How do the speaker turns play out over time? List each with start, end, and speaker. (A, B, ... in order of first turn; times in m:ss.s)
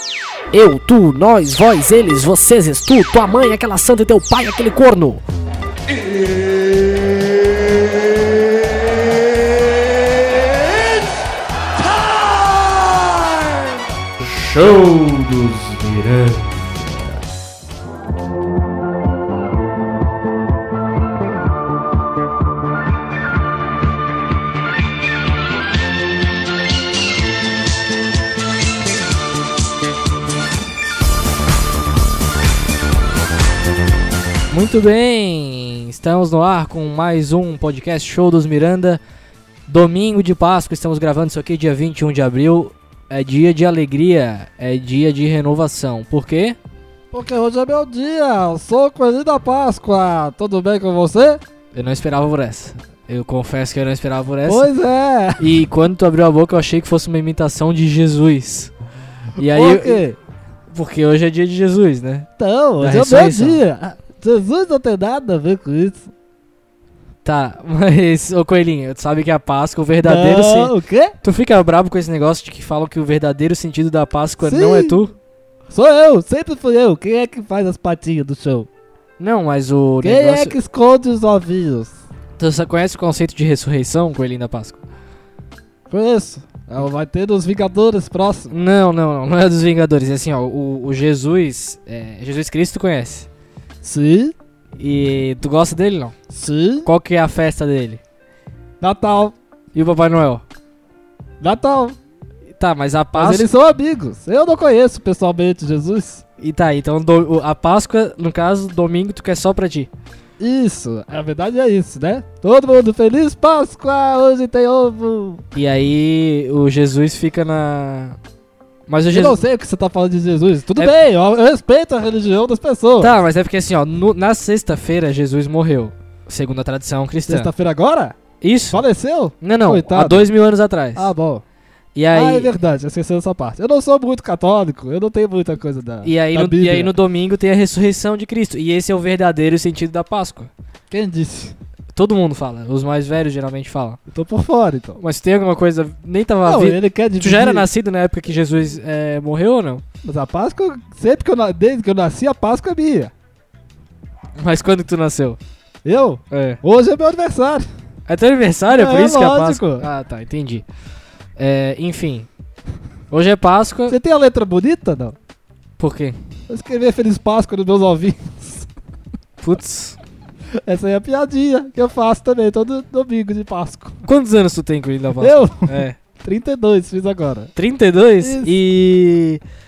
0:00.5-0:05.2 A
0:14.2-0:17.3 B
0:34.5-0:39.0 A
0:39.7-0:46.6 A
0:47.1-0:51.4 C
0:51.7-0:54.7 A
0:54.5-0:55.5 C
0:55.4-0:58.7 A
0:59.4-1:00.0 A
0:59.4-1:00.2 C
1:00.7-1:02.3 A
1:02.4-1:06.0 C
1:02.8-1:03.6 A
1:07.2-1:15.2 A
1:10.0-1:11.1 C
1:14.4-1:15.0 C
1:15.7-1:18.7 C
1:19.2-1:20.6 A
1:20.0-1:21.9 C
1:22.4-1:24.8 A
1:25.9-1:28.6 C
1:28.5-1:33.3 A
1:33.8-1:34.3 C
1:34.8-1:36.2 A
1:36.3-1:36.9 C
1:36.8-1:38.0 A
1:38.8-1:39.3 C
1:39.7-1:40.4 A
1:41.4-1:42.0 C
1:42.6-1:43.5 A
1:43.2-1:46.2 C
1:46.4-1:49.9 A
1:50.4-1:55.4 C
1:55.6-1:58.2 A
1:58.9-1:59.4 A
1:59.1-2:03.1 C
2:03.0-2:07.5 A
2:07.3-2:08.2 C
2:08.4-2:08.8 A
2:08.7-2:10.3 C
2:09.4-2:11.1 A
2:11.0-2:11.4 C
2:12.0-2:12.5 A
2:12.1-2:16.9 C
2:16.0-2:20.5 A
2:20.9-2:21.5 C
2:21.9-2:24.0 A
2:24.1-2:25.0 C
2:25.0-2:29.8 A
2:26.4-2:27.7 C
2:30.0-2:33.1 C
2:34.4-2:35.4 A
2:35.8-2:37.7 C
2:36.3-2:36.6 A
2:38.1-2:40.6 A
2:38.7-2:39.9 C
2:41.4-2:42.3 A
2:43.1-2:44.0 A
2:43.9-2:45.2 C
2:45.8-2:46.2 A
2:46.5-2:48.7 C
2:49.4-2:50.0 A
2:50.6-2:54.0 C
2:54.0-2:56.0 A
2:55.2-2:57.5 C
2:57.6-2:59.4 A
2:58.2-2:58.5 C